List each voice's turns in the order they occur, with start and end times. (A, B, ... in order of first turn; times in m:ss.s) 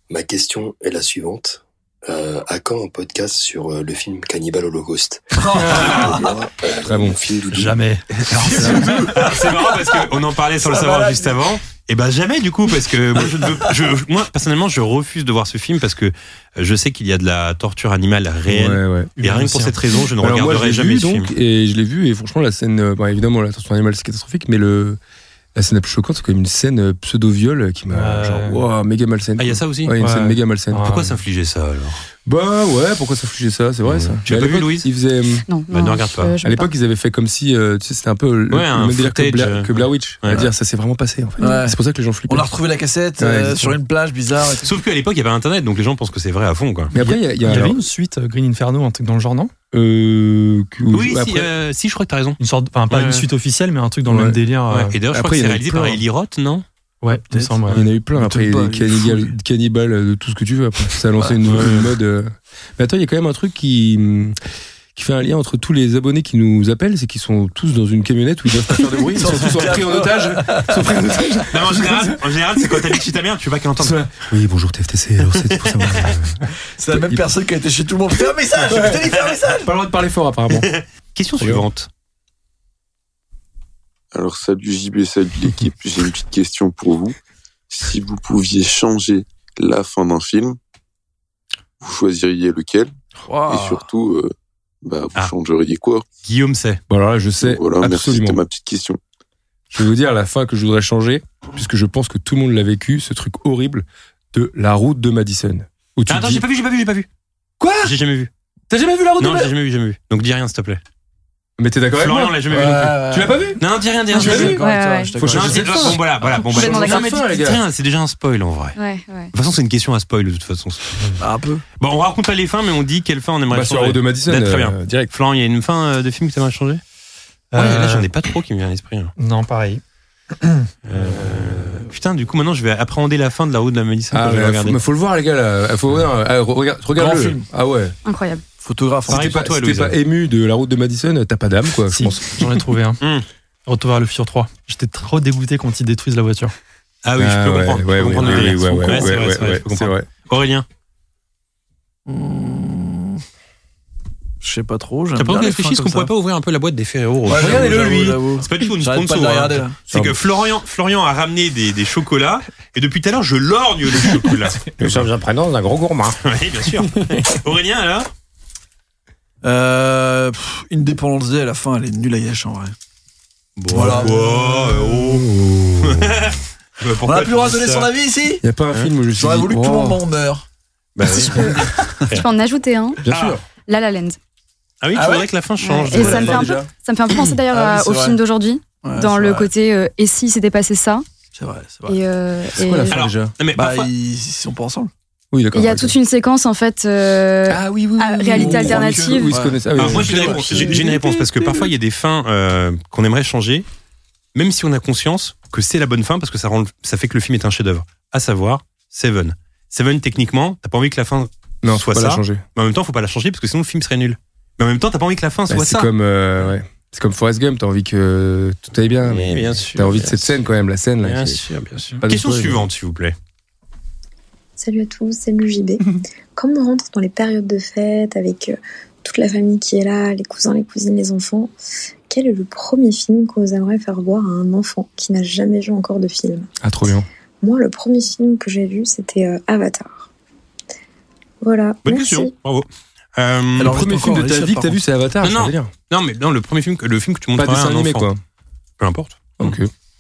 0:00.1-0:07.8 A
0:05.3-0:06.3 B
0:06.8-0:07.2 C
0:07.5-0:08.0 D
0:08.4-0:09.5 B
0:08.6-0:09.0 C
0:09.0-0:21.3 E
0:10.6-0:11.3 B
0:18.5-0:19.2 C
0:19.2-0:19.8 D
0:20.2-0:25.0 C
0:25.6-0:30.9 C
0:27.9-0:28.6 D
0:29.4-0:30.0 E
0:30.0-0:31.1 D
0:30.8-0:32.0 E
0:32.2-0:35.4 C
0:33.8-0:34.9 E
0:35.5-0:36.7 F
0:35.7-0:36.3 E
0:36.4-0:42.5 C
0:38.5-0:40.5 E
0:41.4-0:41.8 B
0:42.3-0:44.7 B
0:43.2-0:43.8 C
0:44.6-0:46.9 E
0:46.9-0:47.8 C
0:47.0-0:49.5 D
0:49.7-0:51.5 C
0:50.9-0:52.4 E
0:52.4-0:54.9 D
0:52.9-0:53.3 E
0:54.1-0:54.4 C
0:54.7-0:56.6 E
0:55.1-0:56.0 C
0:57.0-0:57.8 D
0:57.3-0:59.3 B
0:57.7-1:04.4 C
1:01.5-1:01.9 E
1:05.0-1:12.8 C
1:09.0-1:10.9 B
1:11.5-1:14.0 E
1:13.8-1:17.2 C
1:16.8-1:19.7 B
1:18.7-1:20.7 C
1:20.6-1:21.9 E
1:21.4-1:21.7 C
1:24.1-1:27.2 G
1:27.7-1:30.6 G
1:31.8-1:32.9 G
1:33.2-1:33.9 B
1:33.5-1:34.3 G
1:34.8-1:36.0 G
1:36.2-1:36.8 E
1:36.9-1:38.4 C
1:37.4-1:39.0 G
1:39.7-1:46.4 C
1:46.1-1:47.1 E
1:47.6-1:47.9 C
1:47.8-1:48.3 E
1:48.7-1:49.5 C
1:49.2-1:50.8 E
1:51.6-1:53.6 C
1:52.0-1:53.0 E
1:52.5-1:53.5 B
1:53.6-1:54.6 E
1:54.1-1:55.9 F
1:54.1-1:56.3 B
1:54.2-1:54.7 C
1:55.2-1:55.9 C
1:55.2-1:58.8 E
1:56.5-1:57.2 F
1:56.5-1:57.6 C
1:58.8-1:59.3 F
1:59.3-2:01.0 E
2:01.2-2:01.6 B
2:01.8-2:06.8 E
2:03.5-2:05.1 C
2:07.5-2:08.1 D
2:07.6-2:09.1 E
2:09.2-2:09.8 D
2:10.9-2:14.8 E
2:14.1-2:17.9 C
2:17.0-2:17.4 B
2:18.0-2:18.4 F
2:18.6-2:19.4 B
2:19.1-2:20.0 E
2:19.1-2:22.6 C
2:21.9-2:23.0 D
2:23.0-2:23.3 E
2:23.7-2:26.5 D
2:27.0-2:30.7 E
2:27.2-2:30.1 C
2:32.1-2:33.2 B
2:34.4-2:36.1 B
2:35.2-2:45.1 E
2:37.3-2:39.8 B
2:37.4-2:38.2 C
2:39.9-2:40.2 C
2:44.8-2:46.2 C
2:46.2-2:48.1 E
2:46.8-2:47.2 C
2:49.4-2:52.8 B
2:53.6-2:55.3 E
2:53.7-2:54.8 B
2:55.0-2:56.3 C
2:55.8-2:57.9 E
2:57.0-2:58.4 B
2:58.4-3:00.0 C
2:59.2-3:00.4 B
3:01.0-3:02.2 E
3:01.2-3:02.0 B
3:02.1-3:03.0 F
3:03.0-3:03.4 C
3:03.1-3:03.4 E
3:03.7-3:04.2 F
3:04.8-3:06.6 E
3:05.0-3:05.3 B
3:05.6-3:11.0 F
3:06.0-3:06.4 B
3:06.0-3:06.7 C
3:07.5-3:08.2 B
3:08.8-3:09.5 B
3:11.4-3:12.0 B
3:11.9-3:13.0 F
3:12.6-3:13.3 C
3:12.9-3:13.9 E
3:13.6-3:14.9 B
3:15.3-3:16.0 C
3:15.6-3:19.4 F
3:17.5-3:20.8 C
3:18.3-3:21.6 B
3:19.8-3:23.7 E
3:24.4-3:35.9 E
3:31.6-3:32.4 C
3:35.5-3:41.4 C
3:39.0-3:40.4 E
3:41.0-3:43.2 E
3:42.0-3:42.7 C
3:44.6-3:45.8 H
3:46.4-3:51.5 H
3:52.1-3:56.5 H
3:56.6-3:57.1 C
3:57.4-4:00.1 H
4:01.4-4:02.3 H
4:01.8-4:03.8 E
4:03.6-4:04.8 B
4:03.6-4:05.7 C
4:05.2-4:08.1 E
4:07.4-4:08.2 C
4:08.8-4:09.6 E
4:09.4-4:09.7 C